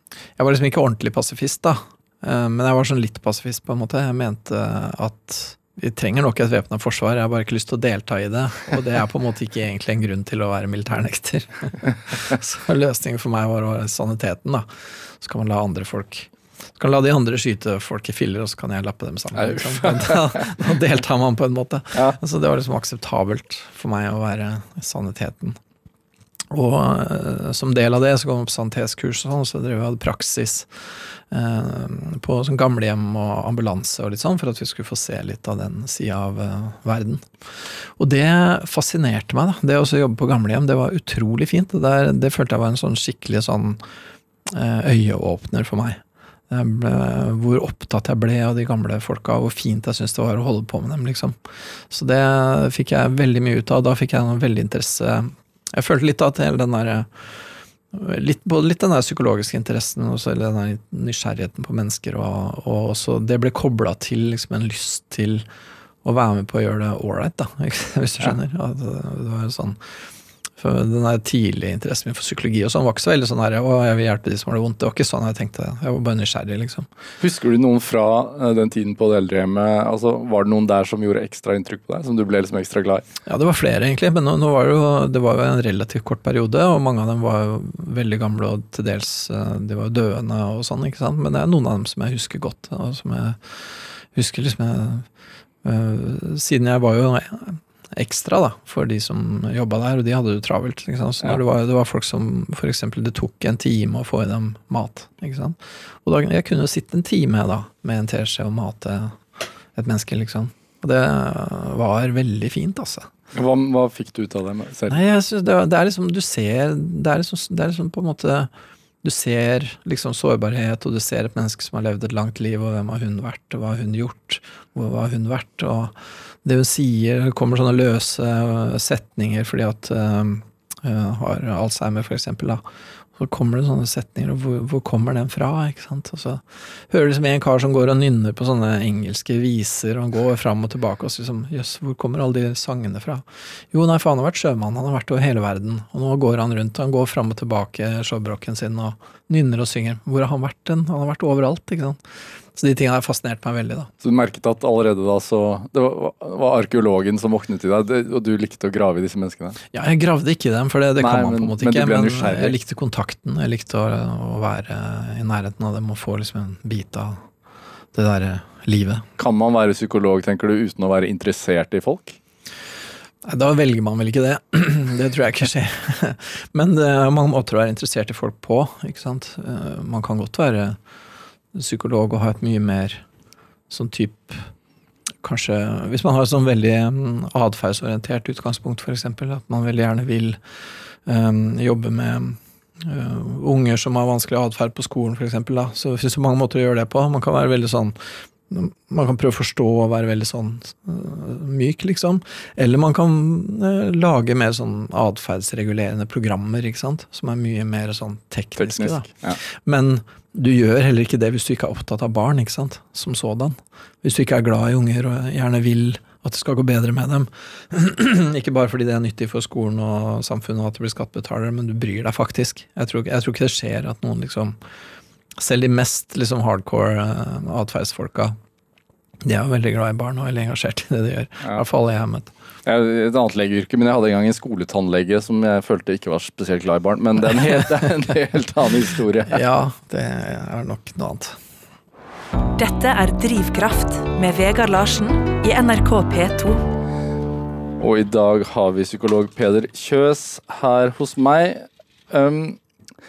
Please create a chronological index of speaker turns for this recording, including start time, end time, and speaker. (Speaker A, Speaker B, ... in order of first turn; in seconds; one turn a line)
Speaker A: 0.4-14.7
Speaker A: 15.2-25.6
Speaker B: 19.4-20.5
Speaker A: 26.5-43.8
Speaker A: 44.5-51.4
Speaker A: 51.9-57.3
Speaker A: 57.9-65.5
Speaker A: 66.0-69.8
Speaker A: 70.6-76.9
Speaker B: 77.2-83.0
Speaker A: 83.2-93.6
Speaker A: 94.1-95.0
Speaker A: 95.6-109.2
Speaker A: 109.7-113.1
Speaker B: 113.3-115.0
Speaker A: 114.9-118.5
Speaker A: 119.0-132.6
Speaker A: 133.1-152.0
Speaker A: 152.5-153.9
Speaker B: 154.0-159.6
Speaker A: 159.7-167.2
Speaker B: 161.0-162.6
Speaker A: 167.9-169.0
Speaker B: 169.2-172.2
Speaker A: 173.2-180.8
Speaker A: 181.5-183.0
Speaker A: 183.7-184.5
Speaker A: 185.2-190.4
Speaker A: 191.1-198.0
Speaker A: 198.5-224.6
Speaker B: 208.6-209.4
Speaker A: 225.4-228.4
Speaker A: 229.2-232.3
Speaker B: 232.7-239.4
Speaker A: 239.3-241.4
Speaker C: 242.6-246.6
Speaker B: 247.8-252.6